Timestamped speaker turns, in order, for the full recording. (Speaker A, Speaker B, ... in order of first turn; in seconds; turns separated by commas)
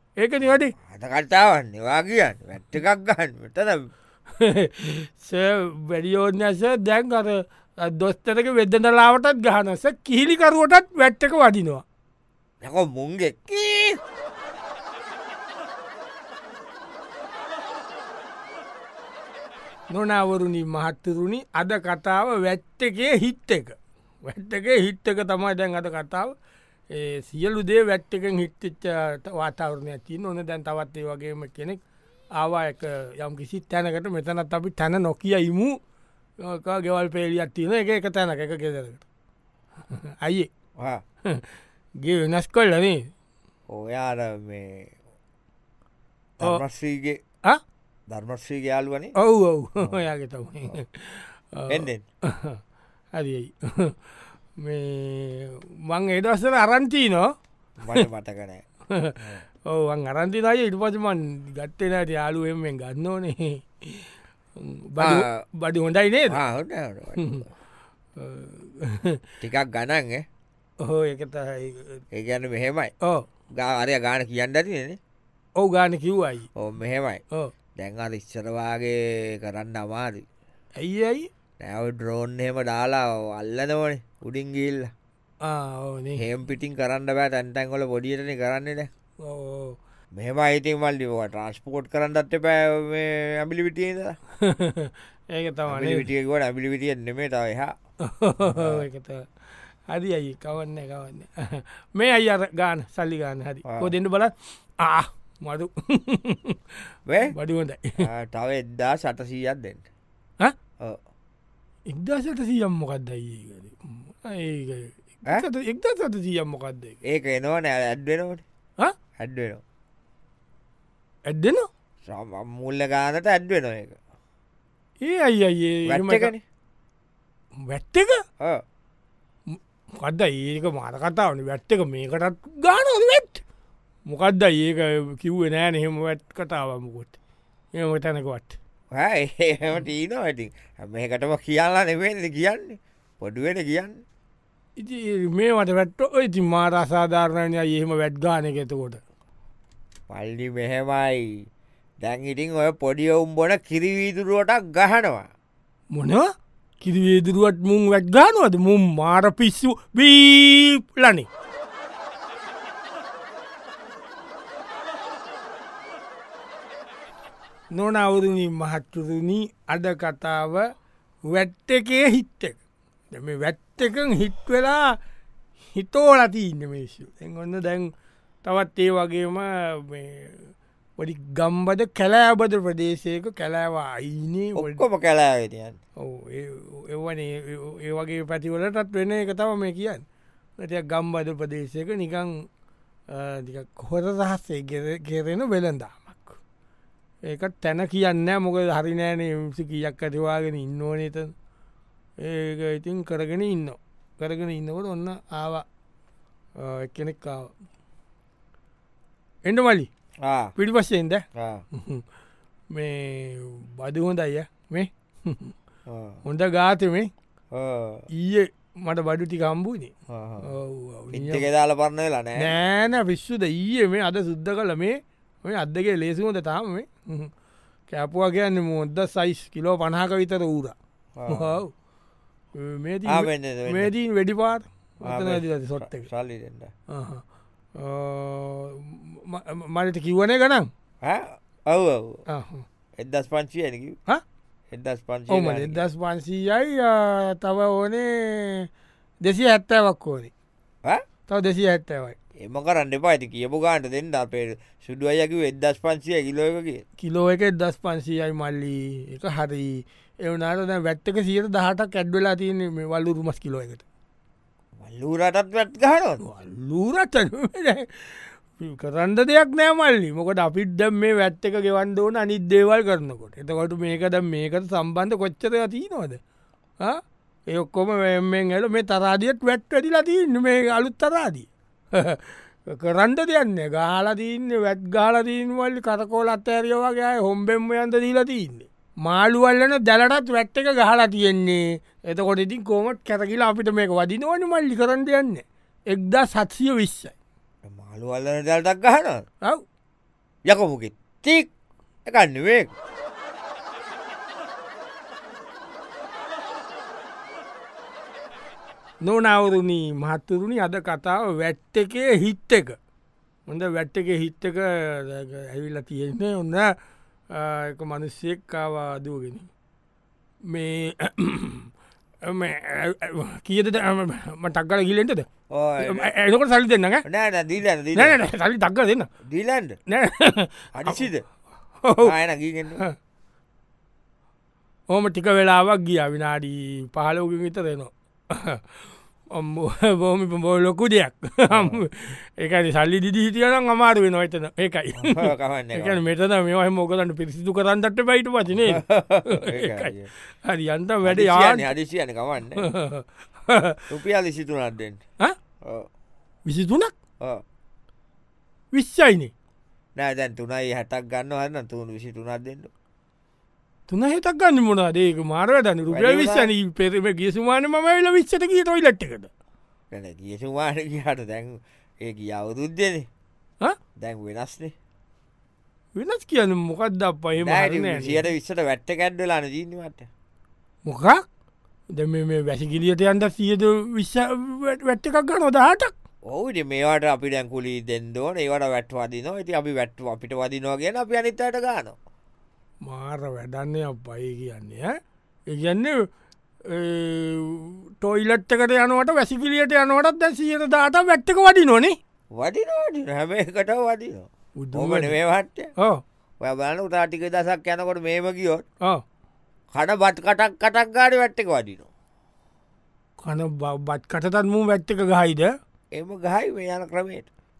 Speaker A: 0.2-0.7, Speaker B: 0.8-3.9, Speaker A: 4.4-11.8, Speaker B: 12.6-14.0, Speaker A: 19.9-26.3, Speaker A: 26.9-31.8, Speaker A: 32.4-35.8, Speaker A: 36.4-39.0, Speaker A: 39.9-40.5, Speaker A: 42.0-43.1, Speaker B: 43.7-44.9, Speaker B: 46.4-47.2, Speaker B: 48.1-49.1, Speaker A: 49.1-52.6, Speaker B: 51.7-52.0, Speaker A: 53.1-54.0, Speaker A: 54.6-57.3, Speaker B: 57.8-58.6, Speaker A: 58.9-59.2, Speaker A: 59.7-66.4, Speaker B: 65.0-65.2, Speaker B: 66.3-67.4, Speaker A: 67.2-67.5, Speaker A: 68.2-69.2, Speaker B: 69.4-70.2, Speaker A: 70.8-72.0, Speaker B: 72.1-72.9, Speaker B: 73.5-75.0, Speaker A: 75.6-76.5, Speaker B: 76.5-77.2, Speaker B: 77.8-80.2, Speaker A: 80.8-81.3, Speaker B: 81.6-84.9, Speaker A: 85.4-86.2, Speaker B: 86.2-88.9, Speaker A: 89.2-89.8, Speaker B: 90.1-94.2, Speaker A: 94.4-96.1, Speaker B: 95.7-97.7, Speaker A: 98.0-99.3, Speaker B: 98.5-98.8, Speaker A: 99.9-106.6, Speaker B: 103.7-103.9, Speaker B: 107.1-107.3, Speaker A: 107.3-108.1, Speaker B: 108.0-109.8, Speaker A: 111.9-117.0, Speaker B: 117.0-118.4, Speaker B: 119.2-119.6, Speaker A: 121.3-121.7, Speaker B: 122.0-124.0, Speaker A: 125.0-126.3, Speaker B: 125.8-126.4, Speaker A: 127.6-128.2, Speaker A: 129.5-133.4, Speaker A: 134.1-137.2, Speaker A: 137.7-138.6, Speaker B: 138.9-144.0, Speaker A: 144.8-149.0, Speaker B: 150.1-151.4, Speaker B: 152.0-155.3, Speaker A: 155.9-156.3, Speaker A: 156.8-161.3, Speaker A: 167.7-170.7, Speaker A: 171.3-172.6, Speaker A: 173.1-174.9, Speaker A: 175.7-177.9, Speaker A: 178.4-184.8, Speaker B: 184.5-185.8, Speaker A: 186.0-190.0, Speaker A: 190.6-192.4, Speaker A: 193.1-196.4, Speaker A: 197.2-201.3, Speaker A: 202.2-205.6, Speaker A: 206.6-207.5, Speaker A: 209.4-209.9, Speaker B: 210.2-210.5, Speaker A: 210.6-212.0, Speaker B: 211.3-211.6, Speaker A: 212.7-215.5, Speaker B: 215.9-216.2, Speaker A: 216.2-217.1, Speaker B: 217.5-218.1, Speaker A: 218.1-221.4, Speaker B: 220.1-220.5, Speaker B: 221.1-222.5, Speaker A: 222.4-227.3, Speaker A: 227.9-230.7, Speaker B: 231.2-231.6, Speaker A: 231.3-231.7, Speaker A: 232.5-236.1, Speaker B: 233.1-233.9, Speaker B: 235.0-236.7, Speaker A: 236.9-237.2, Speaker A: 237.8-240.7, Speaker B: 241.0-242.2, Speaker A: 242.3-242.6, Speaker B: 243.0-244.0, Speaker B: 244.7-245.8, Speaker A: 245.3-248.7, Speaker A: 249.2-250.3, Speaker A: 251.3-252.2, Speaker B: 252.4-256.8, Speaker A: 257.0-263.8, Speaker B: 264.8-266.2, Speaker A: 266.2-276.2, Speaker A: 276.8-297.1, Speaker B: 297.7-299.2, Speaker B: 300.4-301.5, Speaker B: 302.0-302.7, Speaker A: 309.0-312.8, Speaker A: 313.5-316.7, Speaker A: 317.3-319.5, Speaker A: 320.5-321.7, Speaker A: 322.2-325.3, Speaker B: 325.5-326.1, Speaker A: 325.8-327.0, Speaker B: 327.1-328.2, Speaker A: 327.9-329.1, Speaker B: 329.2-329.8, Speaker A: 329.9-331.0, Speaker B: 330.7-331.2, Speaker A: 331.8-332.1, Speaker B: 332.0-332.8, Speaker A: 334.9-338.6, Speaker A: 339.3-351.7, Speaker B: 341.5-341.8, Speaker B: 345.0-346.0, Speaker B: 348.6-350.1, Speaker B: 351.0-352.7, Speaker A: 352.6-353.9, Speaker B: 353.9-355.0, Speaker B: 355.6-355.9, Speaker A: 356.5-356.9, Speaker A: 358.7-359.3, Speaker B: 359.9-362.7, Speaker A: 363.9-369.3, Speaker B: 365.9-366.5, Speaker B: 369.9-373.1, Speaker B: 374.0-374.7, Speaker A: 375.9-378.3, Speaker B: 377.4-380.1, Speaker A: 380.8-381.2, Speaker A: 381.9-385.9, Speaker B: 386.3-391.9, Speaker A: 392.8-394.9, Speaker A: 395.5-396.1, Speaker A: 396.7-402.0, Speaker B: 402.3-405.7, Speaker A: 404.6-405.1, Speaker B: 406.4-408.6, Speaker B: 409.7-411.9, Speaker A: 413.2-415.5, Speaker B: 415.9-417.3